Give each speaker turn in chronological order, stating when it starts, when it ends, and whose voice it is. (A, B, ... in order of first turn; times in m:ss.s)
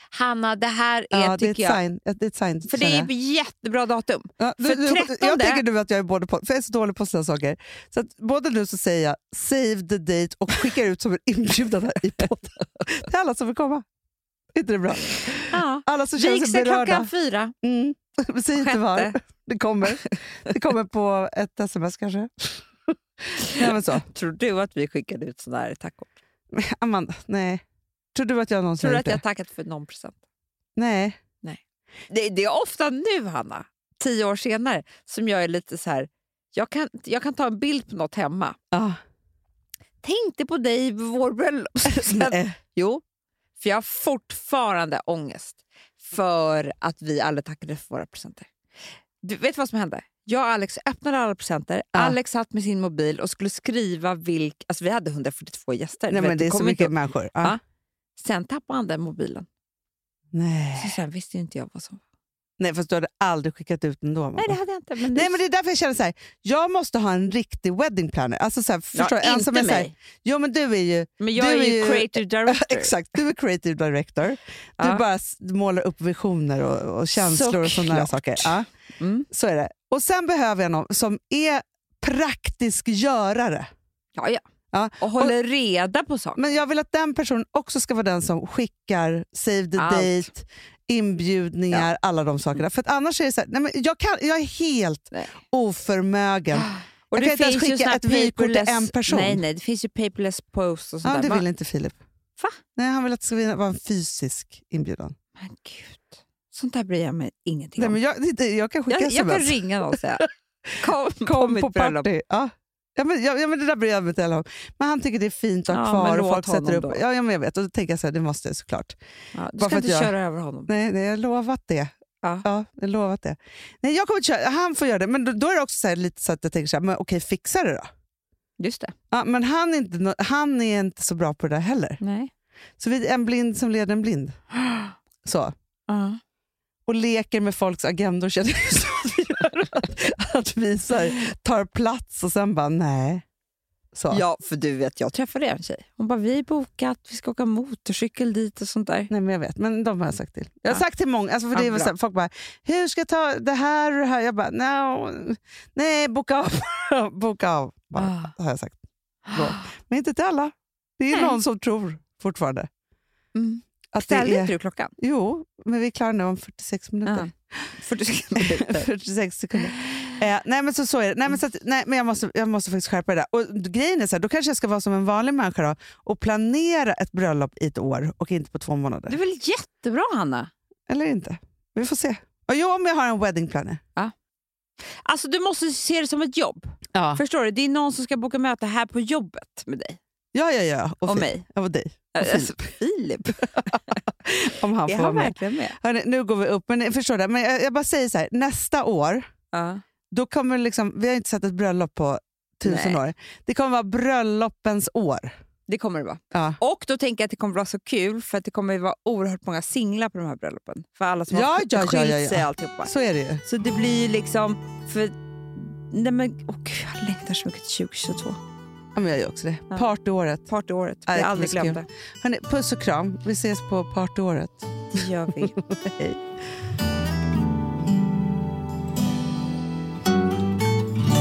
0:00.1-0:01.8 A
0:01.1-0:03.1 B
0:02.7-0:05.6 A
0:04.4-0:13.8 B
0:14.6-0:17.1 B
0:15.5-0:17.5 A
0:17.6-0:22.6 B
0:18.5-0:19.2 A
0:23.4-0:24.1 B
0:23.4-0:26.1 A
0:26.5-0:27.6 B
0:28.2-0:29.2 B
0:28.8-0:30.2 A
0:30.8-0:31.2 B
0:31.4-0:38.6 A
0:38.7-0:39.0 B
0:40.0-0:43.0 A
0:41.8-0:42.6 B
0:43.6-0:48.5 A
0:49.2-0:57.6 A
0:56.1-0:57.6 B
0:58.2-0:59.5 A
1:00.3-1:01.0 B
1:00.8-1:02.0 A
1:02.6-1:04.6 B
1:04.4-1:05.4 A
1:05.1-1:18.7 B
1:08.9-1:09.9 A
1:11.2-1:13.2 A
1:17.2-1:19.3 A
1:19.3-1:23.7 B
1:24.2-1:24.4 A
1:24.7-1:25.4 B
1:25.0-1:26.4 A
1:26.4-1:39.4 B
1:29.8-1:30.3 A
1:36.5-1:41.4 A
1:41.0-1:42.0 B
1:42.8-1:45.2 B
1:45.4-1:48.0 A
1:47.8-1:50.0 B
1:48.9-1:52.1 A
1:51.2-1:59.0 B
1:55.7-1:57.0 A
1:59.3-2:00.7 A
1:59.6-2:00.1 B
2:00.7-2:01.9 B
2:02.4-2:07.9 B
2:08.6-2:08.9 A
2:09.1-2:12.0 B
2:12.0-2:12.3 A
2:12.8-2:14.4 B
2:15.2-2:15.5 B
2:15.9-2:16.2 A
2:16.9-2:23.2 B
2:23.9-2:24.2 B
2:24.1-2:29.1 A
2:29.1-2:38.8 B
2:31.5-2:31.9 A
2:38.0-2:38.3 A
2:39.3-2:39.7 A
2:39.3-2:42.7 B
2:41.1-2:41.4 A
2:43.3-2:44.9 A
2:43.9-2:47.7 B
2:47.0-2:48.9 A
2:48.4-2:59.2 B
2:49.8-2:50.1 A
2:59.1-3:00.5 A
3:00.9-3:03.8 B
3:05.0-3:10.0 A
3:06.9-3:07.2 B
3:10.3-3:12.6 B
3:11.1-3:11.4 A
3:12.2-3:13.9 A
3:14.2-3:19.3 B
3:14.8-3:15.8 A
3:19.5-3:19.8 A
3:20.1-3:25.3 B
3:22.6-3:23.0 A
3:25.7-3:32.9 A
3:26.3-3:26.6 B
3:31.3-3:33.4 B
3:33.4-3:38.4 A
3:39.0-3:40.5 B
3:40.4-3:41.8 A
3:41.1-3:44.7 B
3:44.9-3:45.6 A
3:45.4-3:46.2 B